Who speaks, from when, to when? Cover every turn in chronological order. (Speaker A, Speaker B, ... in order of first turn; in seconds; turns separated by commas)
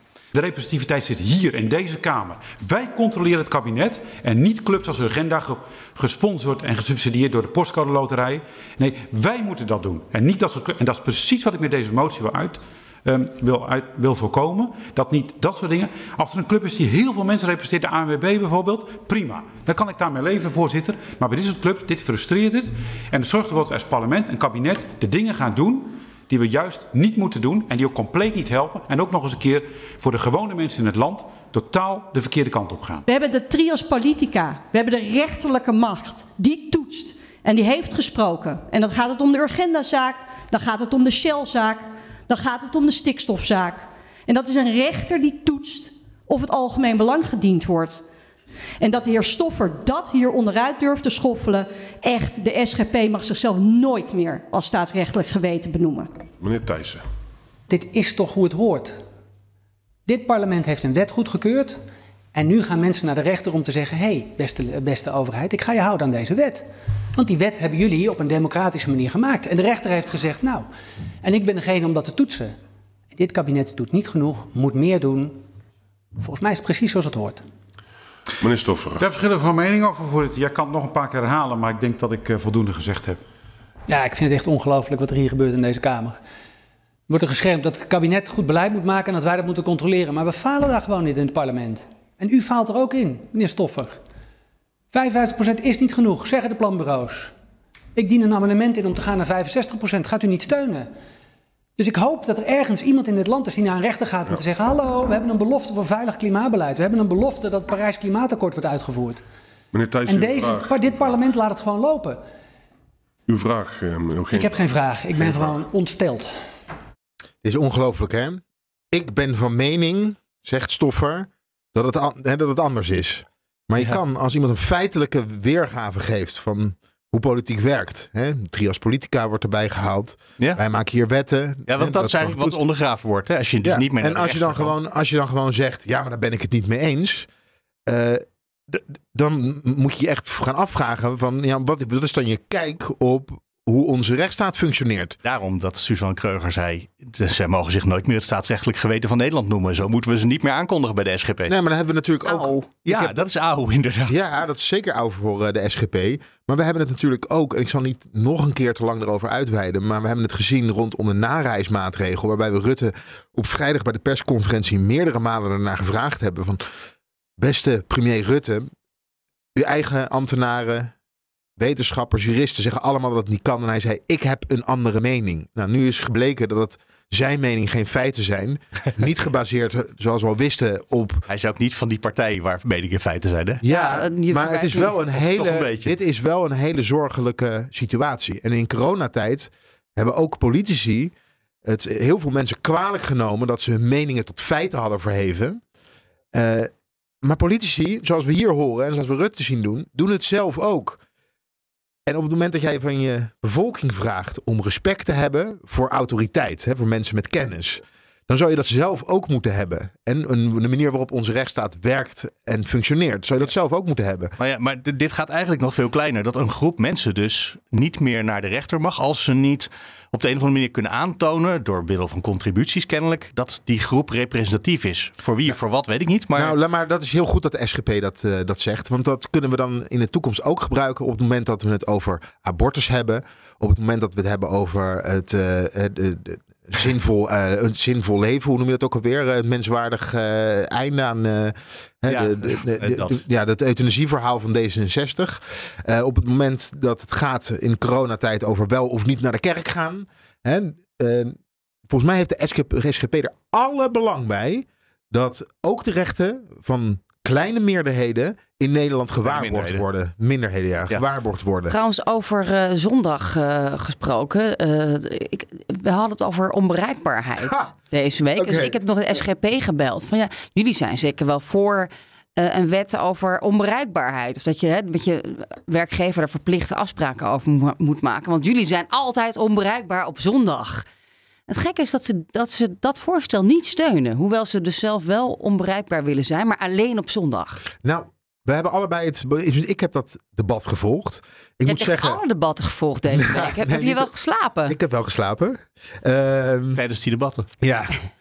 Speaker A: 0.3-33.0, Speaker B: 33.0-48.0, Speaker B: 48.8-56.1, Speaker C: 56.4-57.0, Speaker D: 57.7-59.0, Speaker D: 60.0-61.8, Speaker D: 62.3-70.7, Speaker D: 71.2-72.5, Speaker D: 73.1-75.4, Speaker D: 76.2-77.4, Speaker C: 78.4-79.0, Speaker A: 79.0-83.2, Speaker D: 83.9-86.2, Speaker D: 87.1-94.0, Speaker D: 94.9-97.3, Speaker D: 98.0-100.9, Speaker D: 101.8-109.2, Speaker C: 109.7-111.2, Speaker D: 110.0-112.2, Speaker C: 113.3-114.6, Speaker D: 114.3-116.3, Speaker C: 115.2-115.6, Speaker E: 117.4-132.6, Speaker F: 131.7-134.7, Speaker E: 133.6-137.3, Speaker E: 137.9-145.2, Speaker F: 145.2-151.5, Speaker E: 151.5-153.3, Speaker G: 152.2-152.7, Speaker F: 152.8-154.2, Speaker E: 154.1-166.6, Speaker E: 167.4-168.7, Speaker E: 169.6-170.9, Speaker E: 171.6-181.2, Speaker F: 181.3-183.6, Speaker E: 183.6-191.1, Speaker G: 183.6-185.0, Speaker F: 185.1-185.9, Speaker E: 191.6-195.6, Speaker E: 196.3-196.7, Speaker E: 197.2-201.0, Speaker E: 202.1-214.3, Speaker F: 214.4-226.6, Speaker E: 226.3-251.4, Speaker F: 242.1-243.2, Speaker E: 251.9-261.8, Speaker F: 259.2-259.8, Speaker G: 261.7-280.9, Speaker E: 267.4-267.7, Speaker E: 268.3-268.8, Speaker G: 281.5-287.6, Speaker E: 287.8-292.2, Speaker G: 291.6-294.8, Speaker E: 293.1-294.1, Speaker E: 294.6-296.8, Speaker F: 296.7-297.5, Speaker E: 297.6-298.0